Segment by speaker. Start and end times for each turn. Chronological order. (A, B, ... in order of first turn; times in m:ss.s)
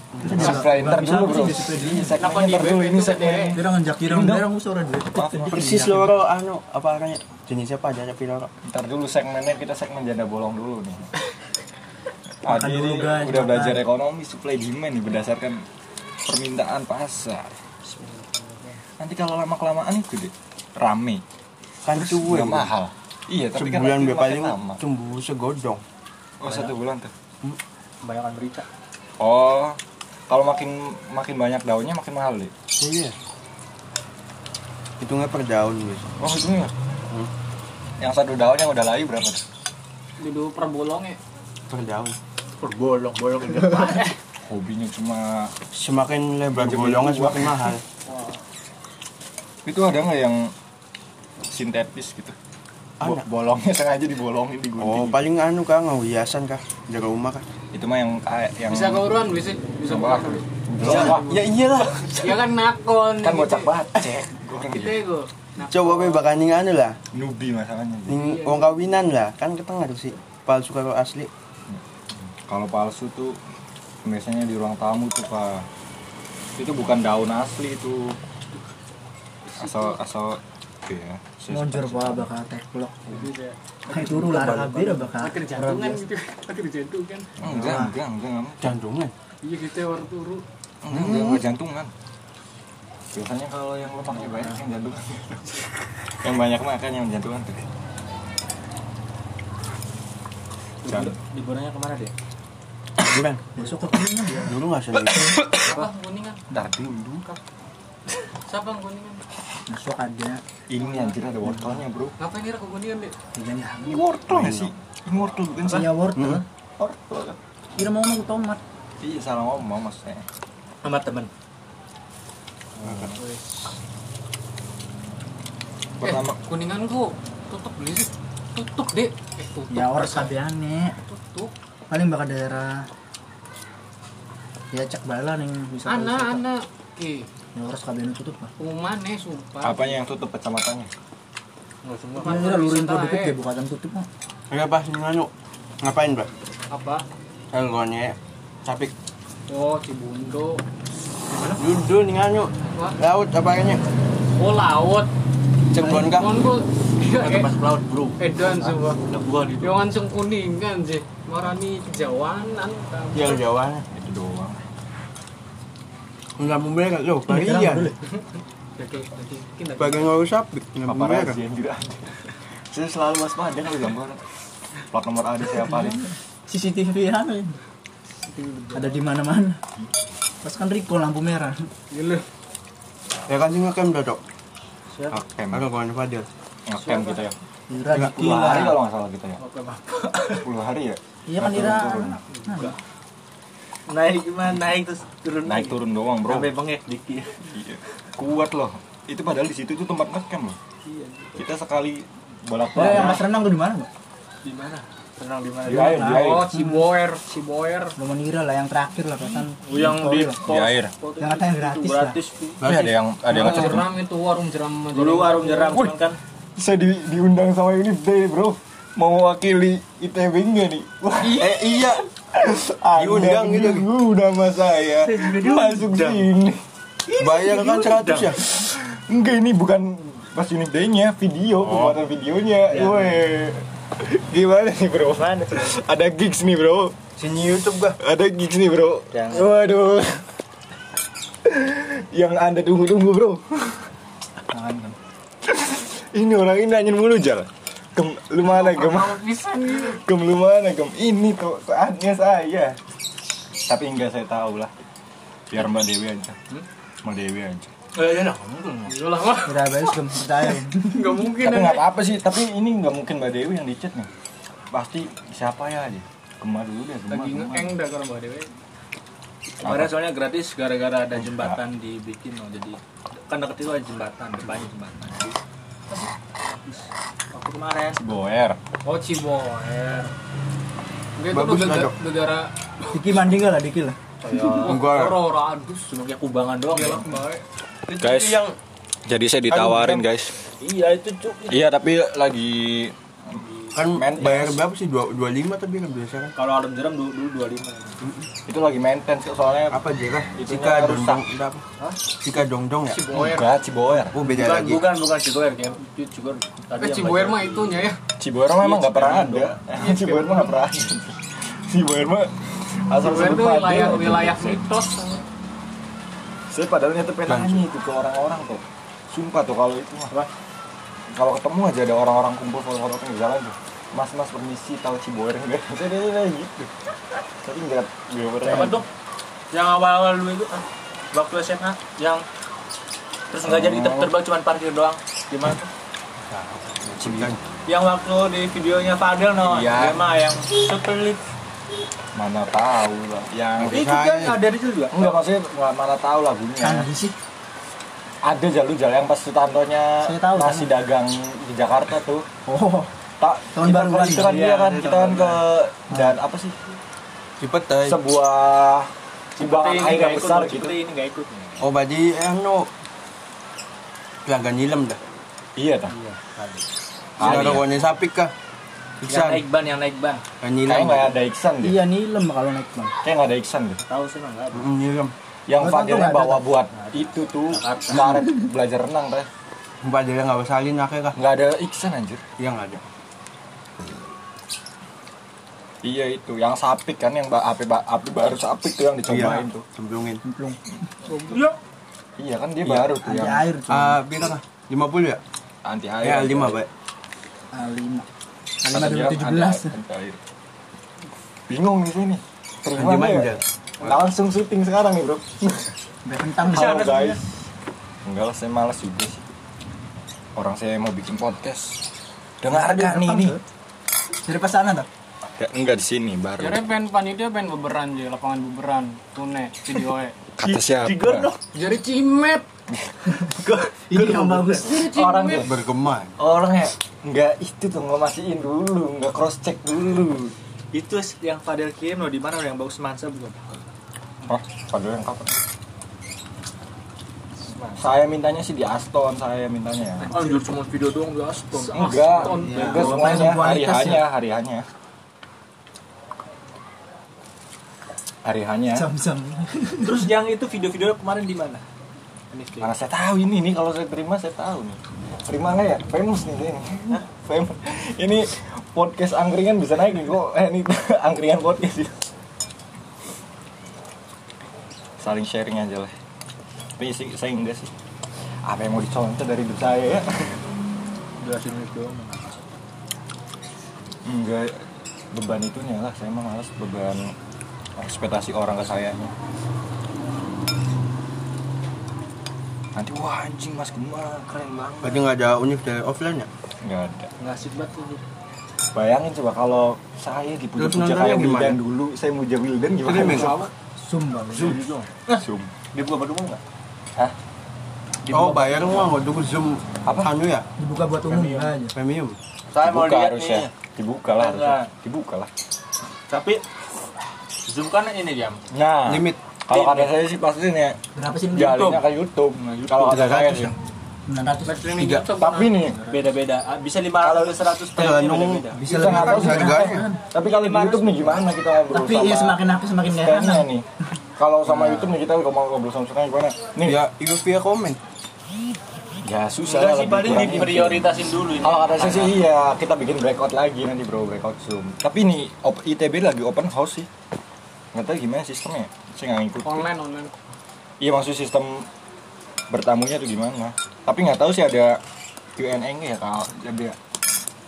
0:00.1-0:00.9 A
0:00.2-0:02.2 B
0:00.2-0:04.5 C
0:02.2-0:03.6 D
0:03.5-0:06.1 B
0:05.1-0:05.8 C
0:05.5-0:08.5 A
0:08.6-0:11.1 C
0:12.4-0:15.6 C
0:12.4-0:13.8 B
0:16.2-0:17.6 C
0:17.8-0:18.8 E
0:19.0-0:21.2 C
0:21.8-0:22.7 A
0:21.9-0:24.8 C
0:23.5-0:25.8 A
0:26.4-0:27.1 C
0:26.4-0:26.7 E
0:28.0-0:28.7 E
0:29.2-0:32.5 C
0:32.8-0:33.2 A
0:35.0-0:36.1 A
0:36.2-0:36.7 C
0:38.0-0:39.4 C
0:40.2-0:41.2 D
0:41.7-0:42.2 A
0:42.6-0:44.1 E
0:44.4-0:45.5 C
0:45.7-0:47.8 A
0:46.5-0:47.7 C
0:48.1-0:48.4 D
0:49.6-0:50.5 C
0:51.5-0:52.4 C
0:53.0-0:55.2 C
0:54.8-0:57.5 A
0:57.7-0:59.1 C
0:58.7-1:03.7 D
0:59.9-1:02.3 C
1:00.8-1:02.1 A
1:03.2-1:05.0 C
1:04.7-1:06.3 D
1:05.6-1:07.0 A
1:07.1-1:08.2 C
1:08.1-1:11.3 A
1:08.1-1:08.8 D
1:11.7-1:13.4 C
1:14.0-1:15.6 C
1:16.6-1:18.2 C
1:19.5-1:20.0 D
1:19.5-1:22.3 C
1:21.5-1:23.3 B
1:23.1-1:23.5 D
1:23.1-1:23.5 E
1:23.9-1:26.1 B
1:23.9-1:25.0 A
1:25.1-1:27.3 D
1:27.4-1:28.8 C
1:27.4-1:27.8 A
1:27.4-1:27.9 B
1:28.6-1:29.1 A
1:29.4-1:30.4 D
1:30.8-1:31.9 C
1:30.9-1:31.4 A
1:33.1-1:37.6 C
1:40.8-1:42.1 E
1:40.8-1:41.1 C
1:43.0-1:45.5 A
1:43.5-1:44.6 B
1:45.4-1:45.9 E
1:45.5-1:46.4 D
1:46.5-1:47.4 C
1:48.4-1:49.2 D
1:49.7-1:50.4 B
1:50.7-1:52.2 C
1:50.8-1:51.2 D
1:52.2-1:53.1 D
1:53.3-1:54.0 B
1:53.8-1:55.9 C
1:54.3-1:54.7 A
1:55.7-1:56.4 B
1:56.1-1:56.4 A
1:56.8-1:57.4 C
1:57.8-1:58.6 B
1:59.0-2:00.2 C
2:00.8-2:01.3 E
2:02.8-2:03.1 C
2:02.8-2:03.1 A
2:06.0-2:06.4 C
2:06.0-2:10.3 D
2:09.7-2:11.0 B
2:11.0-2:11.5 D
2:11.9-2:12.9 B
2:14.7-2:16.4 B
2:15.8-2:17.3 D
2:17.5-2:18.5 B
2:18.6-2:20.0 D
2:19.6-2:20.9 C
2:21.8-2:22.4 E
2:22.1-2:23.4 D
2:22.2-2:24.1 B
2:24.5-2:26.3 A
2:26.7-2:27.0 D
2:27.5-2:28.9 A
2:29.5-2:30.6 D
2:31.3-2:31.6 E
2:31.6-2:33.8 A
2:32.6-2:33.0 D
2:34.3-2:35.1 D
2:35.7-2:36.4 A
2:35.8-2:37.5 D
2:37.1-2:39.9 E
2:38.2-2:39.0 D
2:39.6-2:43.4 D
2:43.1-2:43.8 A
2:43.9-2:44.6 C
2:46.4-2:48.0 A
2:47.3-2:48.0 B
2:48.8-2:50.2 D
2:49.8-2:51.4 A
2:50.9-2:54.2 C
2:54.9-2:56.0 C
2:55.6-2:55.9 B
2:56.5-2:57.6 B
2:58.2-2:59.0 D
2:58.7-2:59.6 B
3:00.4-3:01.7 B
3:01.9-3:02.2 D
3:03.3-3:04.2 A
3:05.1-3:05.7 C
3:05.5-3:06.3 A
3:06.6-3:07.4 C
3:06.8-3:07.2 D
3:07.7-3:08.8 B
3:07.9-3:08.5 A
3:08.1-3:09.4 C
3:09.4-3:10.5 E
3:10.4-3:12.2 C
3:11.3-3:12.8 B
3:12.4-3:12.7 E
3:13.9-3:17.5 E
3:15.4-3:16.5 C
3:17.5-3:20.6 C
3:20.8-3:21.4 E
3:21.4-3:23.2 C
3:22.7-3:23.9 B
3:22.8-3:23.2 E
3:24.4-3:26.3 E
3:25.6-3:26.5 C
3:25.7-3:26.9 B
3:25.9-3:27.9 D
3:28.0-3:30.4 B
3:29.6-3:32.7 E
3:30.4-3:30.9 C
3:31.2-3:32.2 B
3:32.6-3:32.9 A
3:32.6-3:33.9 C
3:33.2-3:35.8 D
3:34.9-3:36.2 E
3:36.6-3:41.8 C
3:41.2-3:42.1 A
3:42.3-3:46.6 C
3:43.0-3:43.9 A
3:45.0-3:46.2 E
3:47.1-3:48.4 E
3:47.1-3:48.4 A
3:48.4-3:57.0 C
3:52.8-3:53.0 E
3:55.2-3:55.6 E
3:57.2-3:58.0 A
3:58.0-4:00.2 C
4:01.4-4:03.9 C
4:04.5-4:04.9 E
4:05.4-4:12.8 C
4:08.4-4:10.0 D
4:13.6-4:14.7 C
4:15.5-4:16.4 C
4:17.0-4:17.7 C
4:17.9-4:18.9 E
4:18.9-4:19.8 D
4:19.4-4:21.2 B
4:20.7-4:21.9 D
4:21.4-4:24.1 C
4:24.7-4:27.7 C
4:27.1-4:28.5 D
4:29.6-4:35.4 E
4:29.6-4:30.0 C
4:31.1-4:31.6 C
4:36.7-4:38.0 E
4:38.0-4:38.6 C
4:38.8-4:40.1 D
4:41.2-4:42.9 D
4:41.3-4:41.9 A
4:42.9-4:44.0 B
4:44.2-4:44.9 E
4:44.2-4:45.9 D
4:44.6-4:45.2 A
4:45.8-4:47.1 E
4:46.7-4:47.4 D
4:47.9-4:48.5 A
4:48.0-4:48.4 C
4:49.0-4:50.4 C
4:49.5-4:50.0 A
4:50.6-4:51.6 E
4:51.5-4:52.9 C
4:53.7-4:56.3 A
4:53.9-4:54.6 C
4:56.4-4:58.0 E
4:58.0-4:58.3 A
4:58.4-4:59.8 C
4:59.7-5:03.0 A
5:00.3-5:01.3 C
5:02.8-5:03.5 D
5:03.1-5:04.2 C
5:04.1-5:05.0 A
5:04.2-5:07.9 E
5:06.8-5:08.0 D
5:08.2-5:14.6 C
5:08.6-5:09.5 E
5:09.8-5:10.5 D
5:13.0-5:15.2 D
5:16.5-5:20.1 C
5:17.3-5:17.6 A
5:21.1-5:26.7 C
5:27.4-5:28.8 C
5:28.4-5:28.8 B
5:28.5-5:28.8 E
5:29.5-5:32.2 E
5:33.3-5:35.7 E
5:33.4-5:34.1 C
5:36.3-5:37.4 A
5:37.0-5:37.4 C
5:37.7-5:41.2 E
5:39.4-5:40.0 C
5:42.1-5:43.8 C
5:43.6-5:44.4 A
5:43.6-5:45.2 E
5:44.9-5:46.9 C
5:46.6-5:47.2 B
5:48.2-5:52.3 C
5:50.0-5:50.7 B
5:52.4-5:52.9 B
5:53.2-5:56.5 C
5:53.5-5:54.4 B
5:54.1-5:55.4 E
5:57.4-5:58.0 A
5:57.8-6:00.8 C
5:59.4-6:01.7 E
6:01.6-6:02.7 A
6:04.2-6:05.0 A
6:05.6-6:05.9 C
6:05.9-6:06.6 E
6:07.2-6:07.7 C
6:07.2-6:08.3 A
6:09.0-6:09.4 A
6:09.1-6:10.2 E
6:10.4-6:11.2 A
6:10.6-6:11.8 C
6:11.6-6:12.9 B
6:13.0-6:13.8 C
6:13.8-6:14.7 E
6:14.5-6:15.1 A
6:15.5-6:19.3 C
6:15.6-6:16.4 B
6:17.5-6:18.3 E
6:19.8-6:21.2 A
6:21.1-6:22.2 C
6:22.4-6:22.8 A
6:25.8-6:29.6 C
6:29.1-6:30.2 A
6:30.2-6:30.6 B
6:32.2-6:33.4 C
6:32.6-6:32.9 A
6:33.0-6:34.0 B
6:33.7-6:35.2 A
6:35.6-6:36.6 C
6:36.0-6:36.7 A
6:37.5-6:38.0 B
6:38.6-6:39.7 B
6:38.7-6:40.2 C
6:41.5-6:45.7 C
6:42.7-6:43.4 A
6:46.0-6:46.9 B
6:46.5-6:47.2 C
6:46.5-6:47.2 E
6:48.0-6:49.2 C
6:50.4-6:51.8 C
6:52.4-6:53.4 C
6:52.5-6:53.4 B
6:54.2-6:54.9 B
6:55.4-6:56.7 C
6:56.4-7:00.2 D
7:00.4-7:01.3 C
7:00.4-7:01.4 E
7:01.5-7:02.4 D
7:02.7-7:03.2 C
7:03.3-7:04.5 E
7:03.9-7:04.9 B
7:03.9-7:05.5 C
7:04.6-7:05.5 D
7:05.3-7:06.1 A
7:06.2-7:10.4 C
7:10.7-7:13.6 E
7:14.2-7:15.4 C
7:17.7-7:20.1 C
7:20.0-7:23.2 E
7:21.6-7:24.7 C
7:21.6-7:22.9 D
7:22.3-7:24.0 B
7:28.2-7:28.9 C
7:28.7-7:30.1 B
7:29.8-7:31.6 E
7:32.3-7:32.7 E
7:32.6-7:42.0 C
7:45.0-7:45.9 C
7:46.8-7:50.4 C
7:51.2-7:52.4 E
7:54.0-7:57.1 C
7:57.8-7:59.1 C
8:02.7-8:05.0 C
8:04.8-8:06.3 A
8:06.6-8:07.1 C
8:07.2-8:08.0 E
8:08.7-8:13.5 C
8:10.6-8:11.6 A
8:12.8-8:13.4 A
8:13.1-8:13.5 E
8:13.8-8:14.6 B
8:14.3-8:16.4 E
8:15.1-8:15.5 C
8:18.0-8:18.9 E
8:18.1-8:20.4 A
8:19.8-8:20.1 C
8:20.6-8:21.7 B
8:21.0-8:21.6 E
8:21.7-8:22.2 A
8:22.5-8:23.5 E
8:22.6-8:25.3 C
8:24.1-8:24.7 E
8:26.1-8:26.4 E
8:27.4-8:28.4 E
8:28.5-8:30.8 C
8:28.8-8:29.2 A
8:29.5-8:29.9 E
8:30.9-8:31.8 B
8:31.3-8:33.5 C
8:32.7-8:33.5 A
8:34.1-8:34.7 B
8:34.4-8:36.0 D
8:34.7-8:35.1 A
8:35.2-8:35.8 C
8:35.9-8:39.4 E
8:37.0-8:37.5 C
8:37.7-8:39.8 A
8:38.5-8:40.0 B
8:38.7-8:43.6 C
8:40.2-8:41.2 E
8:41.7-8:43.5 B
8:44.2-8:46.8 C
8:44.5-8:44.8 E
8:46.6-8:47.8 A
8:49.0-8:56.9 C
8:49.4-8:52.2 E
8:57.7-8:59.7 C
8:59.4-9:00.1 D
9:00.8-9:01.7 C
9:02.5-9:04.8 C
9:05.4-9:06.8 C